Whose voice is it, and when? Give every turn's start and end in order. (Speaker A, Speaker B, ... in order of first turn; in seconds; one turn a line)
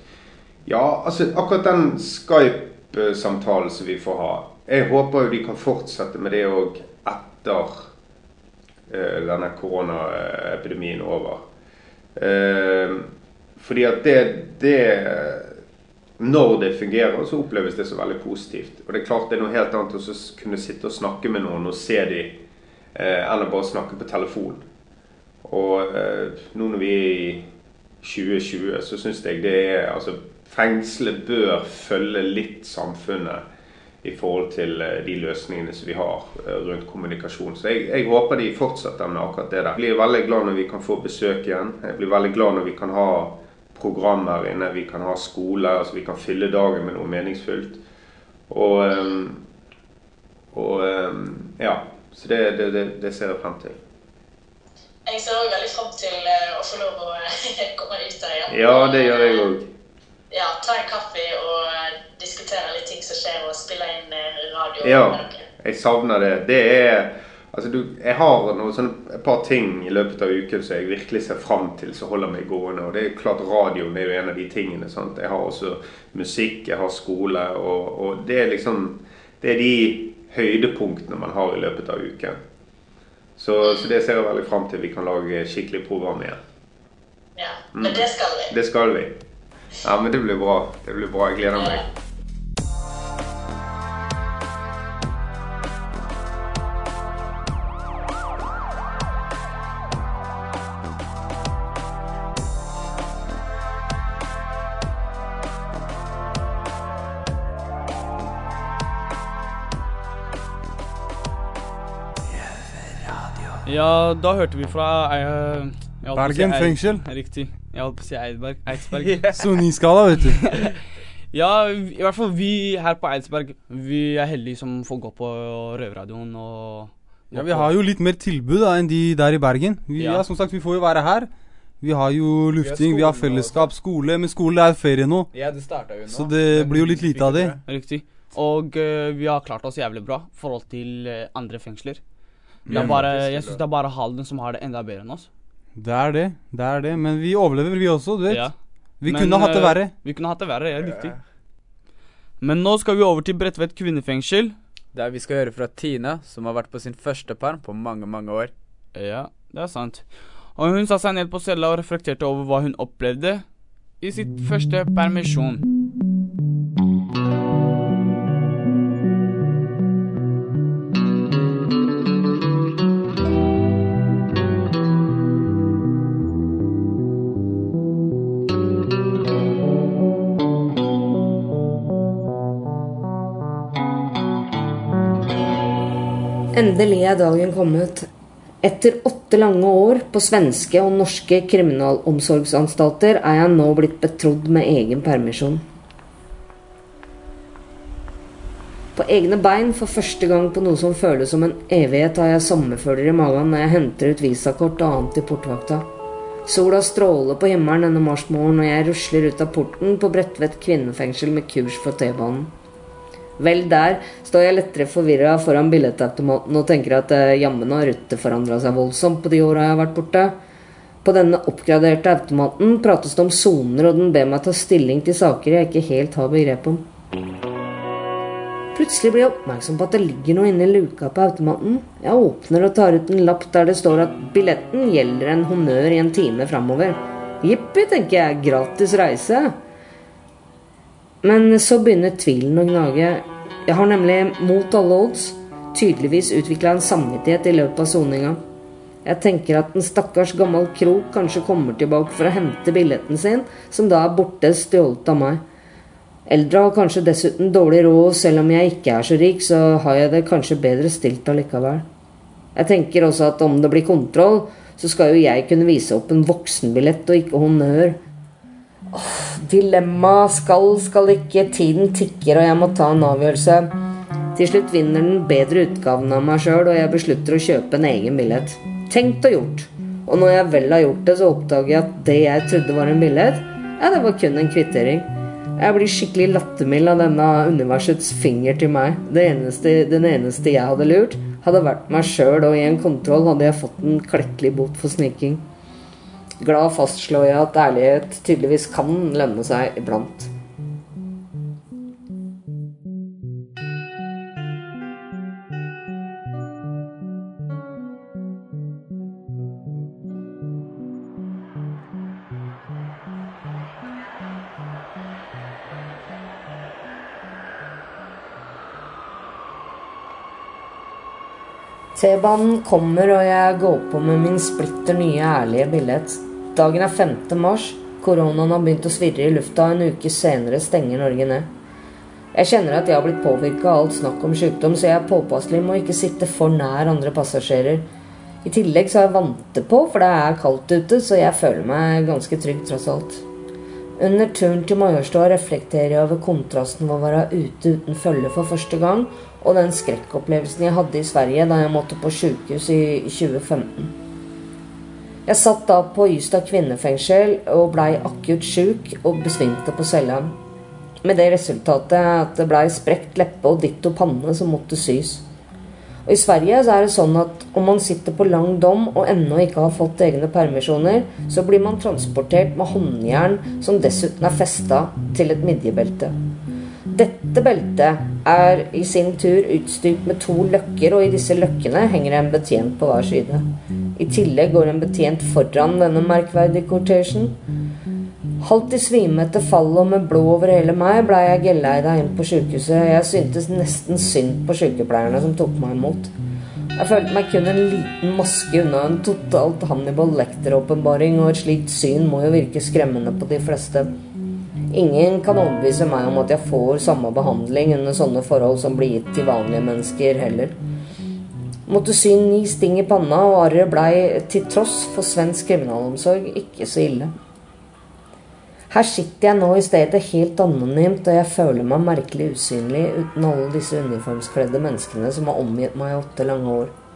Speaker A: 0.7-7.9
Speaker A: 8.9-11.4
Speaker A: 12.2-15.6
Speaker A: 16.2-22.4
Speaker A: 22.9-24.6
Speaker A: 25.4-33.4
Speaker A: 34.0-47.8
Speaker A: 48.5-49.4
Speaker A: 50.5-53.8
Speaker B: 55.0-59.5
Speaker A: 58.5-59.7
Speaker B: 60.3-65.4
Speaker A: 64.8-82.4
Speaker A: 83.4-86.4
Speaker B: 83.6-84.0
Speaker B: 87.3-88.5
Speaker A: 87.7-89.2
Speaker A: 89.8-91.8
Speaker B: 91.5-91.8
Speaker C: 113.6-119.4
Speaker D: 116.1-117.0
Speaker E: 119.0-119.3
Speaker D: 119.3-120.4
Speaker C: 120.4-120.7
Speaker C: 121.3-127.7
Speaker D: 127.3-131.3
Speaker C: 130.0-130.2
Speaker D: 131.8-135.3
Speaker E: 132.5-133.8
Speaker E: 135.3-137.6
Speaker D: 136.1-137.5
Speaker C: 137.7-142.0
Speaker D: 142.7-143.0
Speaker C: 142.7-145.3
Speaker E: 142.7-143.6
Speaker D: 145.8-149.9
Speaker C: 148.3-151.2
Speaker E: 150.8-151.2
Speaker C: 152.4-154.6
Speaker E: 154.9-158.5
Speaker C: 158.9-165.6
Speaker F: 186.5-188.1
Speaker F: 188.6-195.6
Speaker F: 198.9-205.9
Speaker F: 206.4-212.5
Speaker F: 213.4-220.3
Speaker F: 221.0-226.8
Speaker F: 228.7-239.5
Speaker F: 241.2-248.4
Speaker F: 249.0-255.4
Speaker F: 256.3-261.9
Speaker F: 262.6-268.0
Speaker F: 268.9-273.7
Speaker F: 274.3-295.4
Speaker F: 296.4-300.3
Speaker F: 321.9-331.5
Speaker F: 332.3-337.8
Speaker F: 338.4-343.2
Speaker F: 344.0-353.9
Speaker F: 355.3-360.3
Speaker F: 361.0-365.2
Speaker F: 366.1-376.1
Speaker F: 376.9-383.4
Speaker F: 383.9-387.4
Speaker F: 388.4-396.1
Speaker F: 396.8-403.9
Speaker F: 404.7-410.6
Speaker F: 411.7-417.1
Speaker F: 418.7-426.7